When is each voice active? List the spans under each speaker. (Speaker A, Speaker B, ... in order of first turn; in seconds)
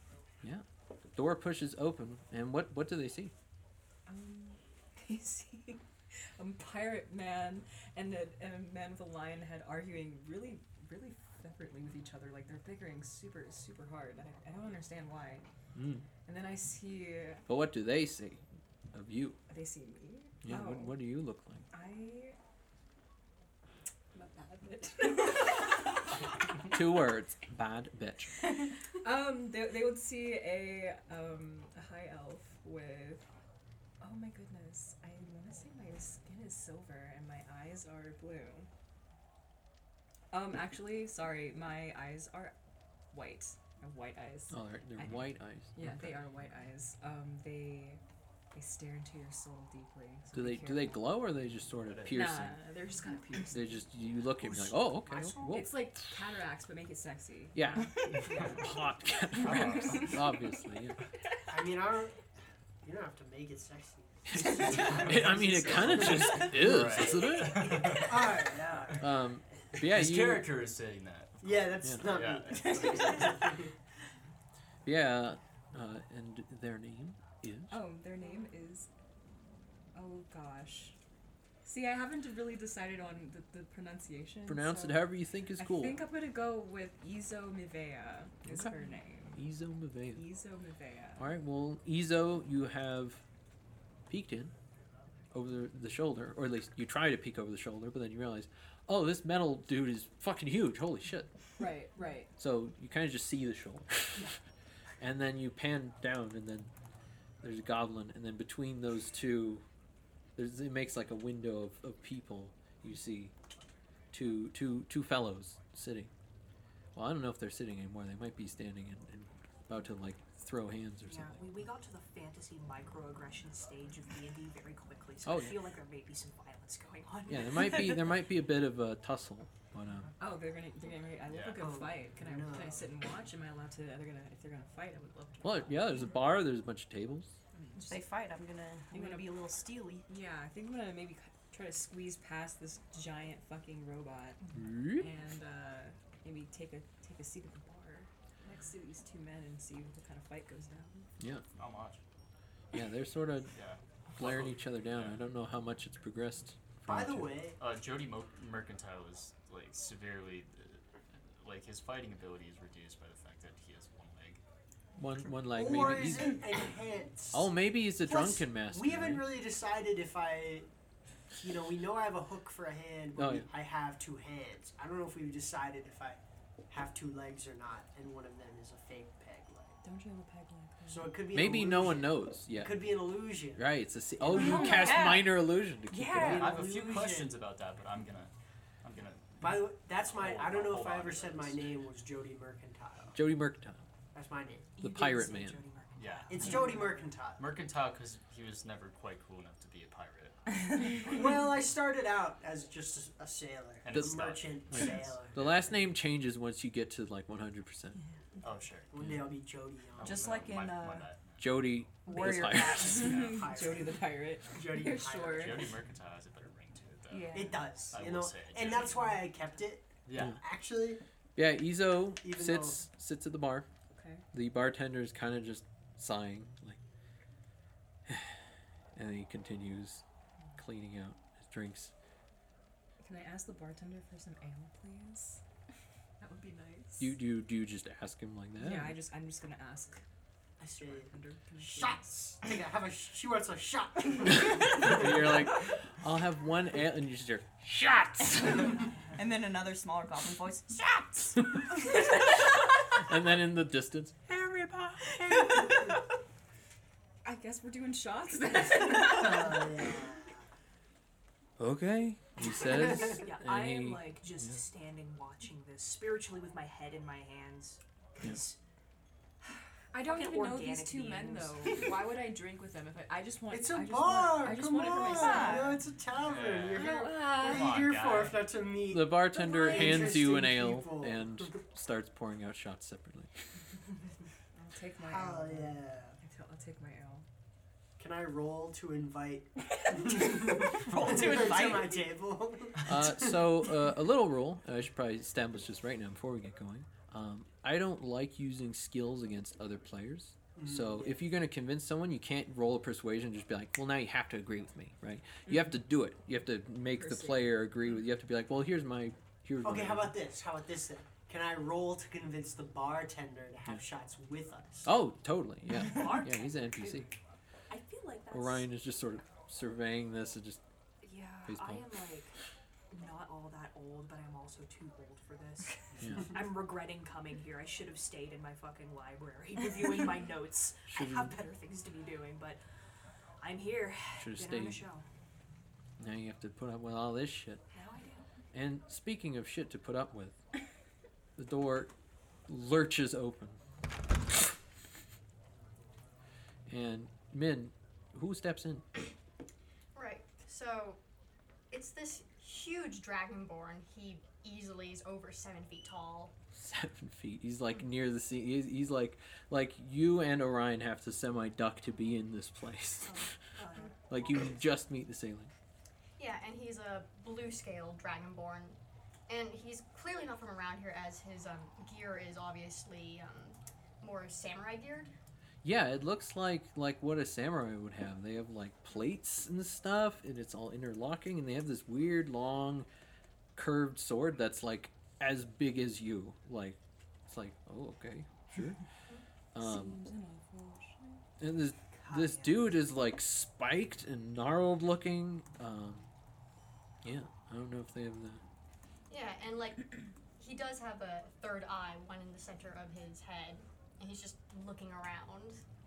Speaker A: 0.4-3.3, 15.7-16.1, 17.5-19.4, 20.4-21.6, 26.7-28.4, 44.5-46.2, 50.3-52.6, 53.5-56.2, 57.5-61.0, 64.3-68.1, 68.9-70.5, 71.8-72.1, 74.8-77.8, 84.5-86.0, 88.4-88.8, 89.3-90.2, 91.2-93.2, 94.1-94.5, 95.3-101.3, 102.4-104.4, 105.0-106.7, 107.4-109.7, 110.3-113.3, 114.1-116.1, 116.9-121.6, 125.2-125.6, 127.2-130.1, 135.4-137.4, 144.5-145.1, 151.2-151.4, 152.7-153.6, 154.1-157.5, 165.0-166.6, 167.3-169.3, 173.2-173.5, 181.3-183.0, 183.5-186.6, 193.1-193.9, 194.8-195.6, 203.9-208.0, 211.4-213.1, 221.3-223.7, 224.3-226.8, 228.1-228.4, 228.9-230.0, 230.6-231.9, 237.0-239.0, 244.3-248.7, 252.9-255.7, 261.6-264.6, 278.9-283.3, 292.8-310.2, 314.8-317.1, 318.3-320.6, 321.4-321.9, 326.0-326.3, 330.9-331.4, 334.2-334.9, 336.0-337.6, 338.5-340.4, 341.4-341.9, 342.5-343.6, 346.7-348.9, 356.5-363.3, 364.1-365.5, 375.6-382.9, 383.6-388.8, 389.5-390.0, 391.4-396.1, 397.0-398.4
Speaker B: 4.1-15.5, 16.2-17.4, 19.5-21.0, 21.7-22.4, 24.1-26.1, 29.0-33.3, 34.0-38.7, 40.3-42.5, 43.1-48.0, 48.5-51.2, 52.1-53.9, 55.2-58.8, 59.4-60.2, 72.8-73.2, 77.7-78.9, 79.9-81.0, 81.6-89.4, 90.1-91.3, 101.6-102.3, 130.2-136.0, 137.5-138.1, 138.9-139.3, 140.1-151.1, 179.8-181.2, 184.4-185.1, 210.1-211.0, 212.1-215.7, 217.1-217.7, 223.9-224.2, 233.0-235.4, 236.2-237.1, 238.6-240.0, 240.6-242.0, 257.2-260.0, 269.9-275.8, 276.7-277.8, 279.4-280.2, 284.5-287.3, 289.9-290.6, 305.5-305.7, 307.0-307.4, 389.6-391.2
Speaker C: 45.0-45.3, 51.8-52.4, 58.3-58.6, 59.3-60.2, 66.3-68.5, 69.8-73.6, 131.2-131.8, 151.5-152.0, 153.5-155.2, 157.6-164.4, 186.2-191.7, 196.0-196.8, 197.4-201.3, 203.8-205.7, 208.4-209.1, 210.0-211.8, 212.9-213.6, 215.2-219.1, 220.1-220.4, 276.1-278.5
Speaker D: 61.5-62.2, 62.8-66.7, 67.7-69.2, 71.4-73.7, 131.6-132.9, 156.9-157.6, 165.5-170.7, 171.4-179.8, 180.9-185.0, 186.1-187.4, 189.4-193.2, 194.1-194.7, 196.3-197.5, 201.0-205.4, 208.9-210.3, 212.1-215.7, 217.3-221.0, 222.2-222.8, 240.7-245.6, 258.8-260.4, 262.5-263.1, 273.5-281.6, 285.0-286.2, 288.0-293.6, 300.6-301.2, 309.6-314.9
Speaker E: 121.0-128.1, 194.8-197.0, 263.1-268.6, 270.0-271.9, 315.8-317.1, 317.7-318.7, 321.0-322.4, 322.9-332.6, 333.4-335.1, 337.7-338.3, 363.0-363.9, 391.9-392.7
Speaker F: 137.8-140.1, 184.7-185.2, 212.1-212.8, 249.1-252.1, 274.8-275.8, 290.9-291.9
Speaker G: 349.9-351.0, 351.7-356.3, 366.2-375.1, 399.1-405.6